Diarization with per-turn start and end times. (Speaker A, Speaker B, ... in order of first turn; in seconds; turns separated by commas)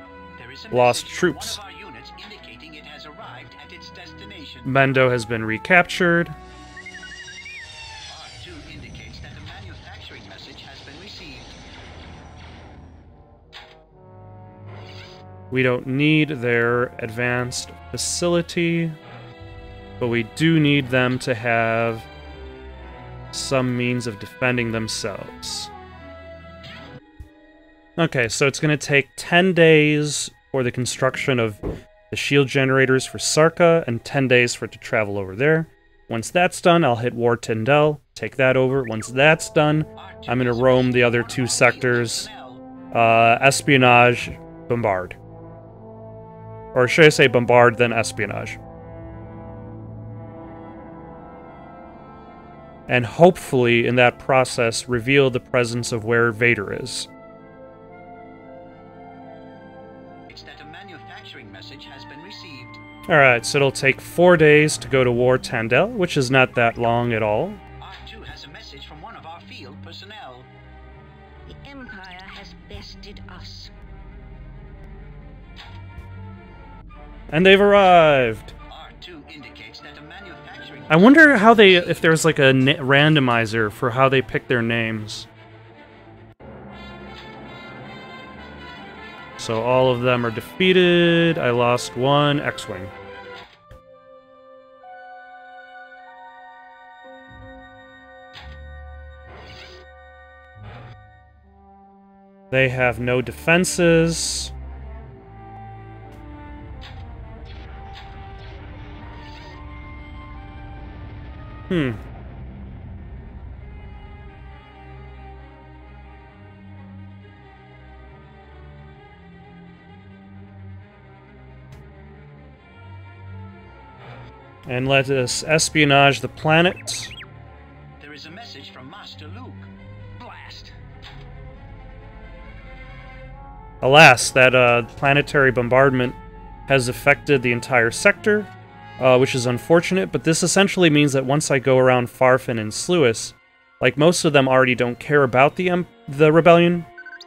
Speaker A: 0.4-4.7, Speaker B: 0.7-1.6, Speaker B: 4.7-6.4, Speaker A: 8.1-11.6, Speaker B: 15.5-19.0, Speaker B: 20.0-22.1, Speaker B: 23.3-25.7, Speaker B: 28.0-42.3, Speaker A: 40.0-42.7, Speaker B: 42.9-45.2, Speaker B: 46.7-48.6, Speaker B: 52.9-57.1, Speaker A: 60.3-62.8, Speaker B: 63.1-67.6, Speaker A: 67.8-70.5, Speaker C: 71.5-73.8, Speaker B: 77.3-78.5, Speaker A: 78.7-82.2, Speaker B: 80.9-85.3, Speaker B: 89.4-92.9, Speaker B: 102.5-104.5, Speaker B: 111.7-112.0, Speaker B: 124.7-127.1, Speaker A: 128.0-129.7, Speaker C: 130.2-130.7, Speaker B: 133.8-146.9